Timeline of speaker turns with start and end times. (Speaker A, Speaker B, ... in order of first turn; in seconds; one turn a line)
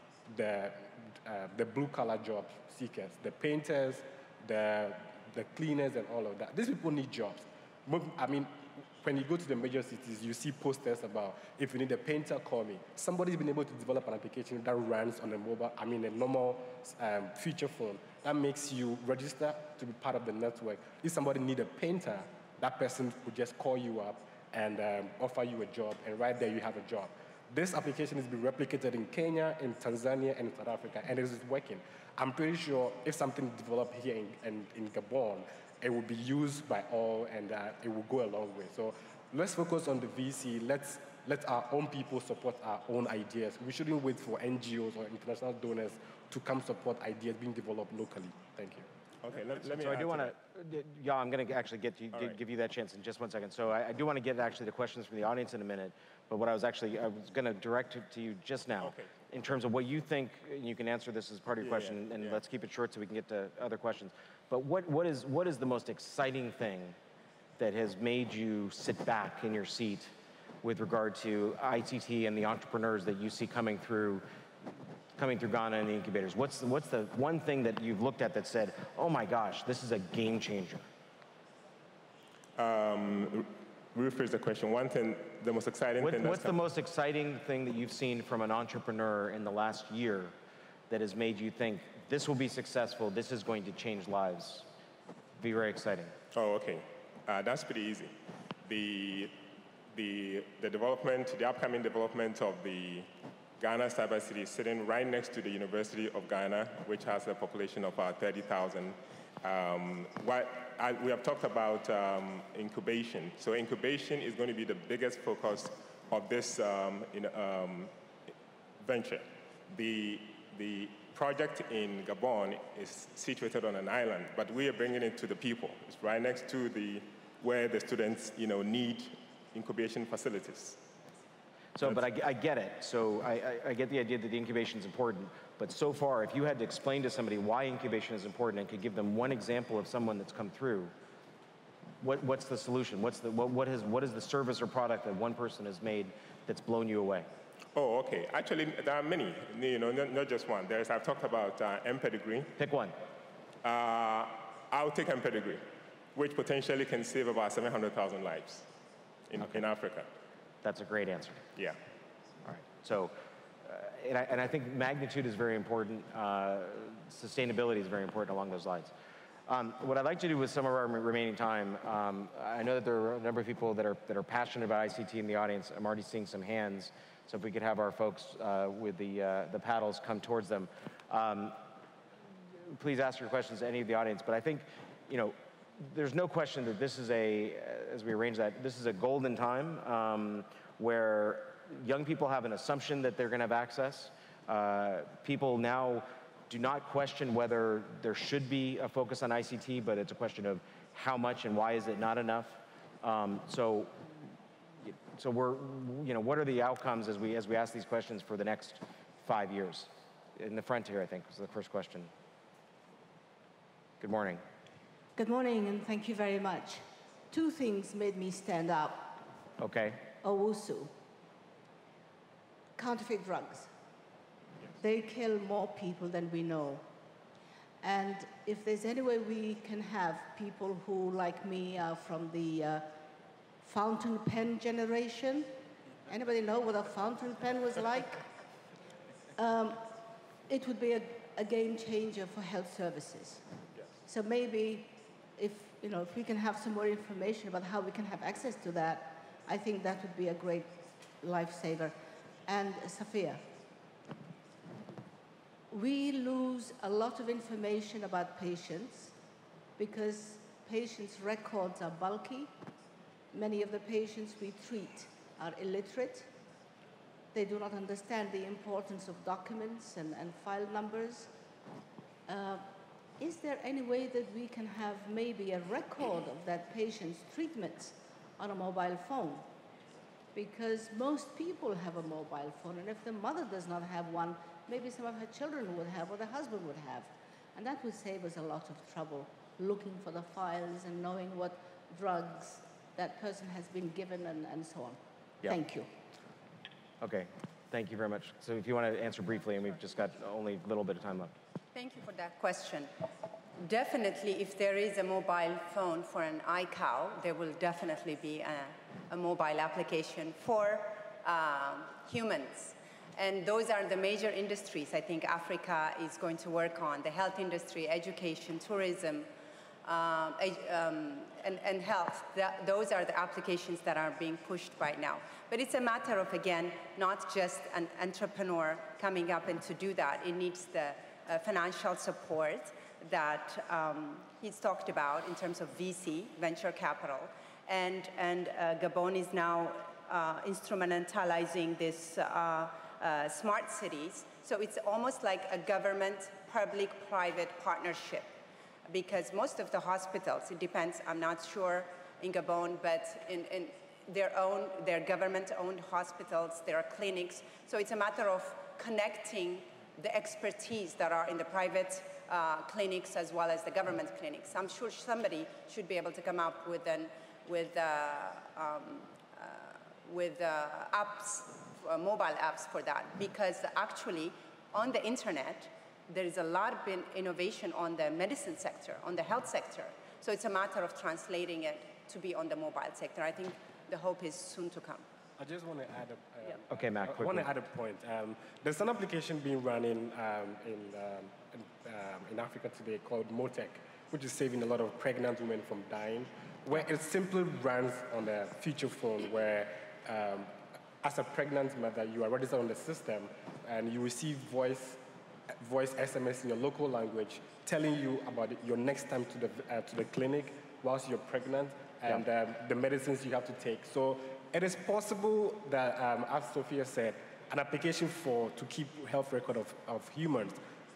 Speaker A: 0.3-48.9
Speaker B: 49.2-50.3
Speaker C: 49.6-67.0
Speaker B: 58.8-59.1
Speaker B: 61.6-62.4
Speaker C: 67.6-74.2
Speaker C: 75.2-80.9
Speaker B: 82.6-86.5
Speaker C: 86.0-90.3
Speaker C: 90.9-94.7
Speaker C: 95.4-96.1
Speaker B: 96.3-99.4
Speaker B: 99.9-103.1
Speaker B: 103.6-117.9
Speaker B: 118.8-130.9
Speaker C: 131.8-140.9
Speaker C: 142.0-147.3
Speaker B: 147.7-152.5
Speaker C: 152.6-153.0
Speaker B: 153.6-158.7
Speaker B: 159.3-160.1
Speaker C: 160.6-161.4
Speaker C: 162.4-168.9
Speaker C: 169.5-181.6
Speaker C: 182.7-204.1
Speaker C: 204.8-212.1
Speaker C: 214.0-214.4
Speaker D: 215.2-219.3
Speaker C: 219.6-220.1
Speaker D: 220.2-220.9
Speaker D: 222.8-223.7
Speaker D: 224.8-226.8
Speaker D: 227.8-233.0
Speaker D: 233.6-235.5
Speaker D: 236.1-238.2
Speaker D: 239.3-243.5
Speaker D: 244.0-253.5
Speaker D: 255.7-259.1
Speaker D: 259.8-262.5
Speaker D: 263.3-266.3
Speaker D: 267.3-271.3
Speaker D: 272.3-279.5
Speaker D: 280.3-295.9
Speaker C: 297.0-301.3
Speaker E: 301.7-302.9
Speaker E: 303.6-319.3
Speaker E: 319.8-348.3
Speaker E: 348.9-385.0
Speaker A: 385.4-405.0
Speaker C: 386.7-387.5
Speaker A: 405.5-420.6